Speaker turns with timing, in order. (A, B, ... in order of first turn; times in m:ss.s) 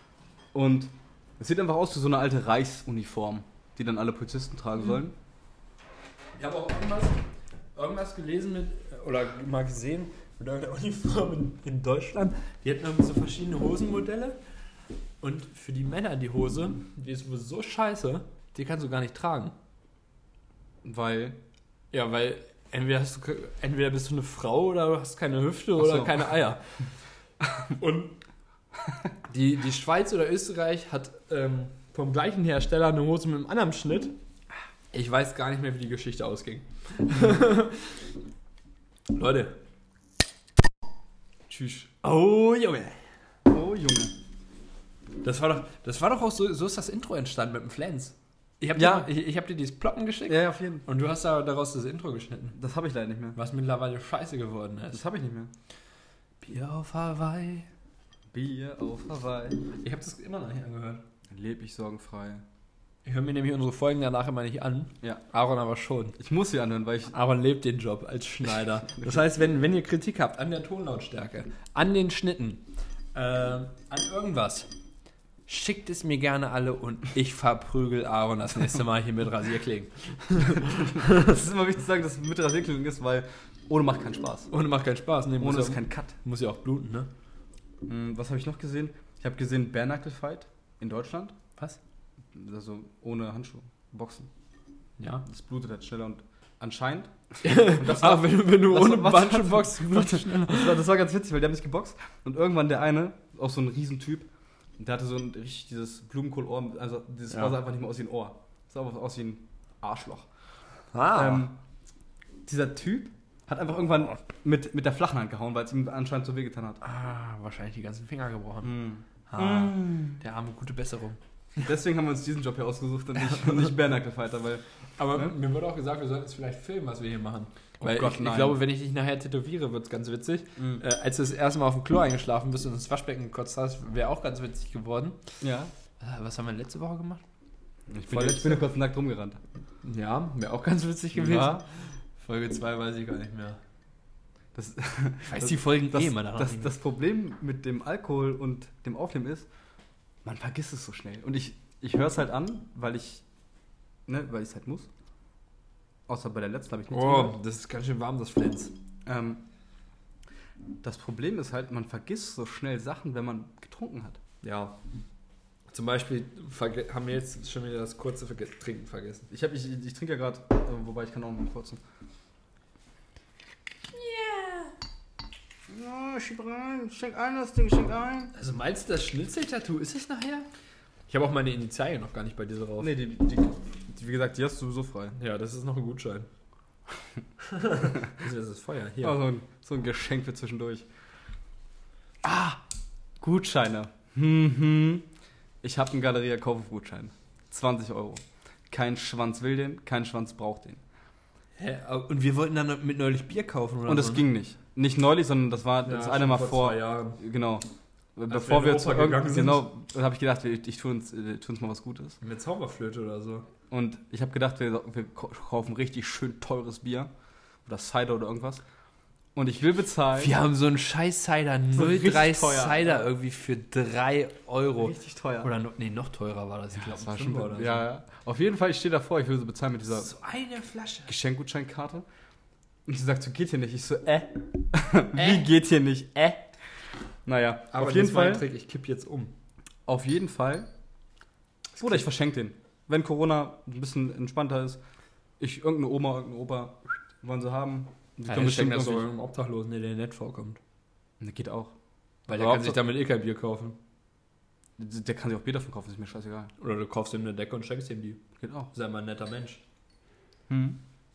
0:00.5-0:05.1 A
0:06.4-0:07.2 B
0:07.7-0:14.4 B
0:15.2-0:19.5 B
0:20.8-0:21.4 A
0:21.9-0:26.6 B
0:25.8-0:26.2 A
0:27.8-0:28.2 B
0:29.3-0:34.1 B
0:34.9-0:38.1 B
0:39.1-0:39.6 B
0:41.5-0:41.9 A
0:42.0-0:43.0 B
0:43.5-0:44.1 A
0:45.2-0:52.6 B
0:48.7-0:49.1 A
0:50.3-0:50.8 A
0:52.6-0:53.4 A
0:53.3-0:55.0 B
0:54.9-0:55.5 A
0:56.4-0:57.7 B
0:58.3-0:59.6 A
0:59.7-1:01.0 B
1:01.3-1:02.4 A
1:03.0-1:06.2 B
1:06.2-1:07.1 A
1:07.1-1:14.7 B
1:15.5-1:21.3 B
1:20.5-1:24.5 A
1:24.5-1:27.1 B
1:25.4-1:26.2 A
1:27.8-1:31.3 A
1:32.3-1:34.3 A
1:35.0-1:35.2 B
1:35.2-1:44.3 A
1:37.4-1:40.8 B
1:44.8-1:50.3 A
1:47.3-1:47.6 B
1:50.9-1:51.5 B
1:51.1-1:51.6 A
1:52.4-1:56.8 A
1:56.8-1:58.8 B
1:58.6-2:00.2 A
1:59.3-2:01.2 B
2:01.6-2:05.3 A
2:05.0-2:15.2 B
2:07.8-2:08.6 A
2:10.6-2:10.8 A
2:15.4-2:15.7 A
2:16.0-2:17.2 B
2:17.9-2:19.4 A
2:18.1-2:18.6 B
2:19.8-2:21.6 B
2:21.1-2:21.6 A
2:22.2-2:23.6 B
2:24.5-2:29.5 A
2:25.3-2:26.7 B
2:30.2-2:33.2 A
2:34.1-2:34.9 A
2:36.1-2:37.4 A
2:36.9-2:38.7 B
2:39.0-2:39.4 A
2:40.8-2:44.2 A
2:44.4-2:44.8 B
2:45.7-2:49.3 B
2:49.3-2:51.8 A
2:53.9-2:54.7 B
2:55.7-2:58.3 A
2:58.3-3:00.5 B
3:01.1-3:03.0 B
3:02.8-3:05.2 A
3:05.2-3:06.3 B
3:07.5-3:09.2 B
3:09.0-3:10.9 A
3:12.2-3:12.6 A
3:13.2-3:15.0 A
3:15.6-3:20.8 A
3:21.6-3:24.3 B
3:23.8-3:27.6 A
3:25.8-3:27.2 B
3:28.2-3:32.2 A
3:28.3-3:29.7 B
3:32.2-3:33.5 B
3:33.7-3:37.1 A
3:37.6-3:38.6 A
3:39.3-3:40.3 A
3:40.2-3:47.8 B
3:41.7-3:43.1 A
3:44.8-3:45.5 A
3:46.8-3:50.1 A
3:49.9-3:51.1 B
3:51.1-3:52.0 A
3:52.9-3:56.5 A
3:55.1-3:55.5 B
3:57.2-3:58.4 A
3:57.7-3:59.3 B
3:59.9-4:00.7 A
4:01.8-4:02.0 B
4:01.8-4:04.8 A
4:05.4-4:09.1 A
4:08.3-4:10.6 B
4:11.2-4:11.7 A
4:12.3-4:12.8 A
4:12.3-4:13.8 B
4:14.8-4:16.5 A
4:16.6-4:18.2 B
4:18.4-4:18.7 A
4:18.7-4:19.6 B
4:20.5-4:20.8 A